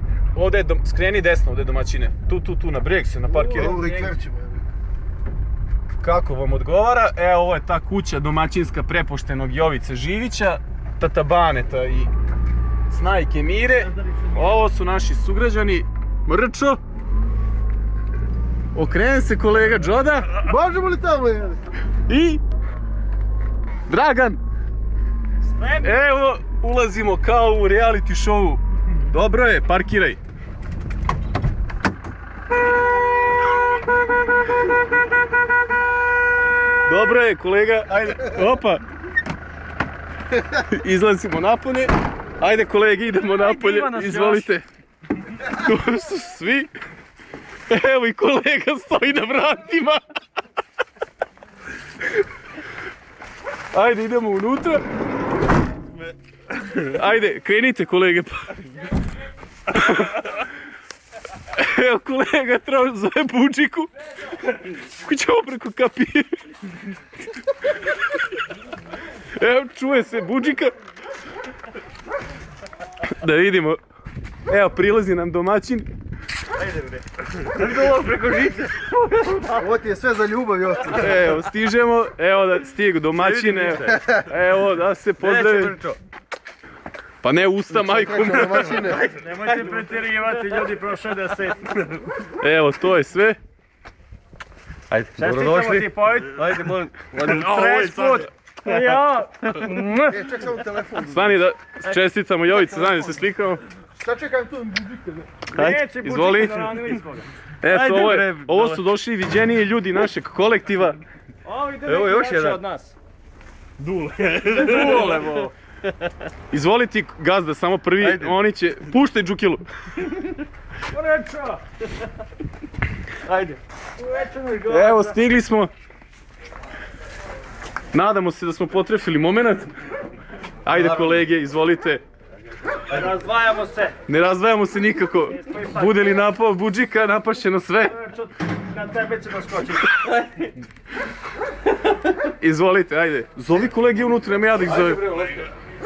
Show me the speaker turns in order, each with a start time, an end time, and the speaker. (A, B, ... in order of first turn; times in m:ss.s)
0:00.3-0:03.8 A
0:03.5-0:04.2 B
0:03.5-0:04.6 C
0:06.0-0:12.1 A
0:12.9-0:16.8 A
0:18.7-0:20.4 A
0:20.4-0:21.6 C
0:22.1-0:22.4 A
0:23.9-0:24.4 A
0:25.4-0:25.9 B
0:25.8-0:30.2 A
0:36.8-0:38.8 A
0:40.4-0:44.6 A
0:43.2-0:44.5 B
0:45.4-0:46.7 A
0:47.7-0:50.0 A
0:53.7-0:54.8 A
0:56.8-0:58.6 A
0:59.7-1:00.3 A
1:01.5-1:03.9 A
1:04.8-1:06.4 A
1:09.4-1:10.7 A
1:13.0-1:13.8 A
1:14.5-1:15.9 A
1:16.6-1:19.6 D
1:19.6-1:21.2 C
1:20.9-1:25.8 A
1:23.2-1:24.1 D
1:25.2-1:26.0 D
1:27.2-1:28.9 A
1:27.9-1:29.1 C
1:28.5-1:29.8 D
1:29.2-1:32.0 B
1:32.3-1:33.4 A
1:34.9-1:38.3 D
1:35.2-1:36.6 B
1:37.2-1:40.3 B
1:40.1-1:41.4 C
1:41.1-1:43.6 A
1:42.6-1:43.0 B
1:44.0-1:45.4 C
1:45.5-1:47.3 B
1:46.0-1:46.7 A
1:47.6-1:51.0 A
1:47.7-1:48.8 D
1:51.4-1:52.9 B
1:51.9-1:52.7 D
1:53.8-1:55.5 D
1:54.3-1:55.5 B
1:56.5-1:59.7 A
1:58.0-1:58.4 D
2:00.9-2:01.6 B
2:03.3-2:03.6 D
2:04.0-2:05.2 B
2:04.7-2:05.7 A
2:07.9-2:09.7 A
2:10.6-2:12.0 A
2:10.7-2:11.2 D
2:12.9-2:14.0 B
2:14.1-2:18.0 A
2:15.3-2:16.1 B
2:17.9-2:20.2 B
2:22.4-2:25.1 A
2:24.7-2:25.4 D